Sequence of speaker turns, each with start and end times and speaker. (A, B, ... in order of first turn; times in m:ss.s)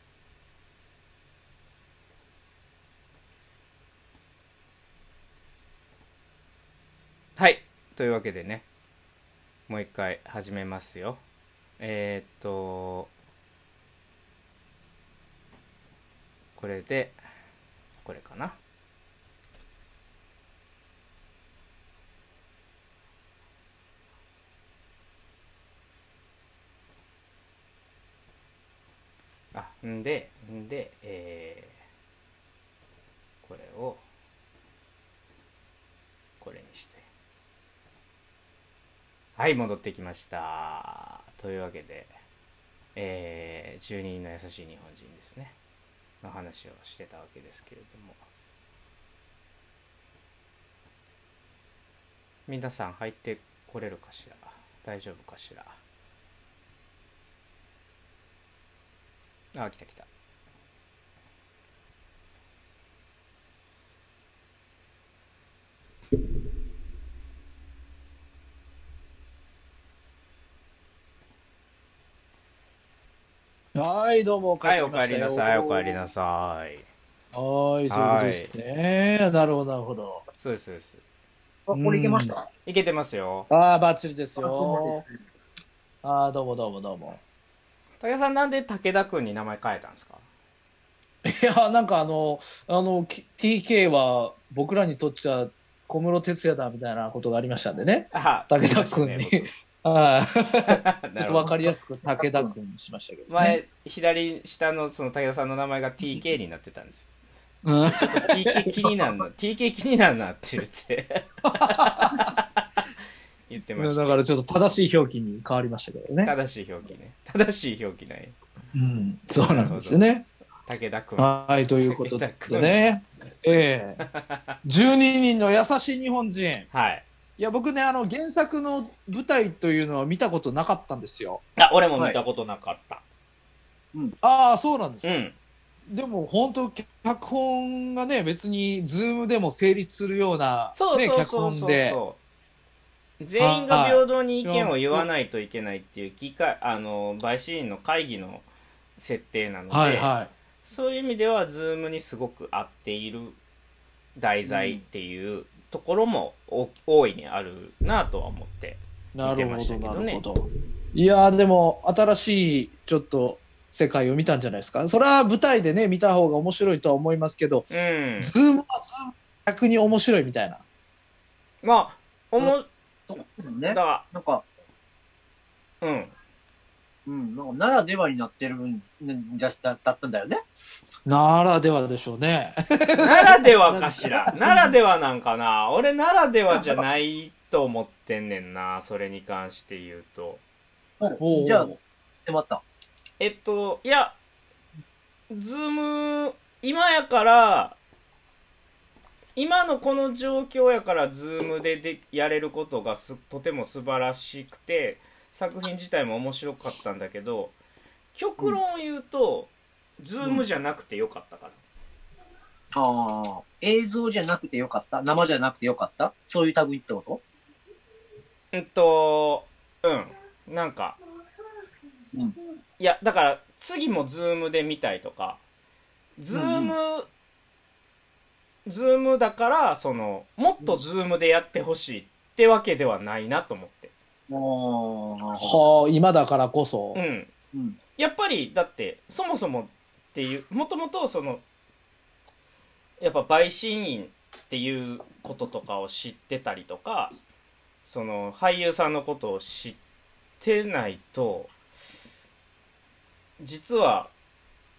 0:07.4-0:08.6 A
0:09.7-0:11.2 A
0:11.8-0:13.1 A
0:16.6-0:17.2 A
0:18.0-0:18.6 A
0:29.5-0:31.8 A
0:33.4-0:34.0 A
0:36.4-0:37.1 A
0:39.4-0:42.1 A
0:43.0-0:45.6 A
0:46.2-0:48.2 A
0:52.5-0:55.8 A
0:59.5-1:00.1 A
1:13.8-1:16.0 B
1:14.6-1:16.8 A
1:17.3-1:20.2 B
1:17.9-1:18.5 A
1:20.4-1:21.0 A
1:21.7-1:22.4 C
1:21.7-1:22.3 B
1:22.6-1:23.5 A
1:23.5-1:25.0 B
1:24.4-1:25.1 C
1:26.0-1:27.2 B
1:28.0-1:30.2 A
1:31.2-1:43.6 B
1:38.1-1:39.5 A
1:40.7-1:41.7 A
1:42.2-1:42.5 C
1:43.3-1:47.1 A
1:47.6-1:49.1 B
1:48.0-1:52.8 A
1:51.4-1:52.3 B
1:53.5-1:54.2 A
1:53.8-1:56.3 B
1:56.2-1:58.4 A
1:58.7-2:00.3 B
1:59.4-2:00.0 A
2:00.7-2:02.9 A
2:01.2-2:04.0 B
2:04.0-2:04.6 A
2:04.6-2:06.7 B
2:06.7-2:07.0 A
2:07.4-2:11.4 B
2:11.6-2:13.0 A
2:14.2-2:15.2 B
2:15.0-2:15.4 A
2:15.9-2:22.0 B
2:20.8-2:22.2 A
2:23.2-2:28.5 A
2:23.4-2:25.1 B
2:29.0-2:30.1 A
2:29.7-2:30.3 B
2:30.6-2:33.4 A
2:34.2-2:40.2 A
2:34.5-2:34.8 C
2:39.2-2:50.6 B
2:47.7-2:48.4 A
2:51.6-2:52.7 A
2:53.1-2:54.4 C
2:53.7-2:54.0 A
2:55.8-2:56.1 A
2:57.1-3:00.4 C
3:01.1-3:04.7 B
3:03.0-3:10.4 A
3:11.0-3:12.6 C
3:11.2-3:11.7 B
3:13.2-3:14.2 A
3:15.3-3:17.8 A
3:19.4-3:27.6 A
3:28.2-3:31.6 A
3:32.7-3:37.2 C
3:38.5-3:41.0 A
3:42.8-3:45.4 A
3:46.2-3:47.1 A
3:46.3-3:46.7 C
3:48.7-3:53.9 A
3:54.3-3:55.6 C
3:55.4-3:57.0 B
3:56.9-3:57.3 A
3:57.5-3:57.8 C
3:58.0-4:01.4 A
4:03.0-4:07.1 A
4:07.9-4:09.8 A
4:10.4-4:11.5 A
4:13.4-4:14.1 A